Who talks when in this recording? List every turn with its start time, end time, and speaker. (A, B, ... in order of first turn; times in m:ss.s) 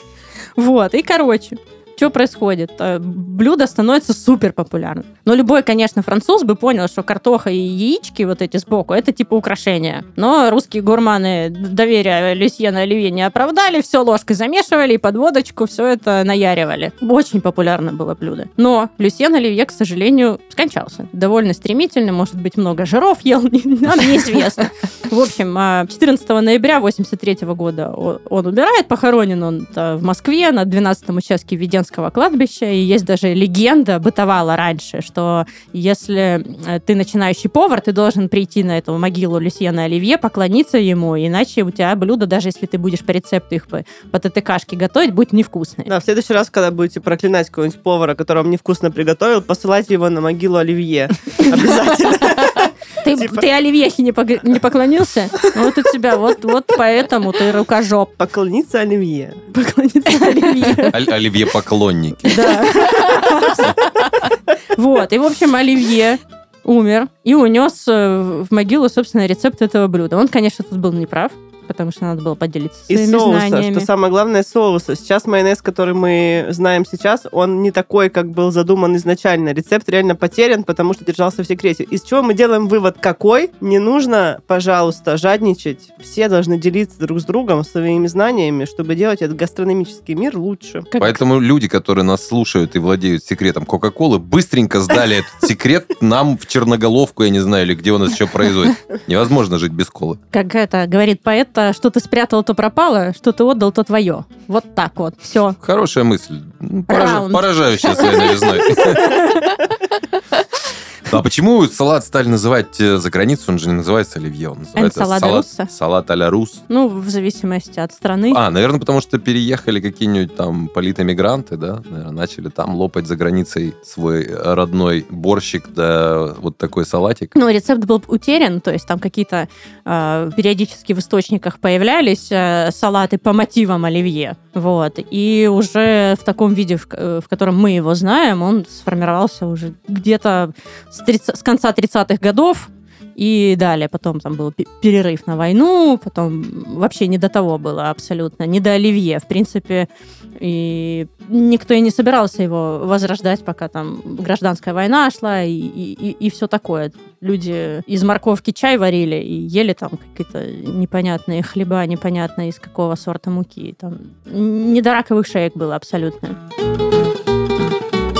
0:00.6-0:45.9 A
0:45.9-0:53.4 B
0:53.0-0:58.1 A
0:58.2-0:59.4 B
0:59.5-1:01.0 A
1:00.9-1:02.6 C
1:02.3-1:03.8 A
1:04.7-1:13.9 A
1:12.9-1:30.9 B
1:30.9-1:31.2 A
1:31.0-1:40.2 C
1:40.3-1:45.6 A
1:45.6-1:49.2 C
1:46.9-1:48.3 A
1:48.9-1:49.6 A
1:51.1-1:56.6 C
1:54.8-1:55.7 A
1:56.7-1:58.4 A
1:58.3-2:07.4 C
2:07.4-2:29.9 A
2:30.4-2:46.4 A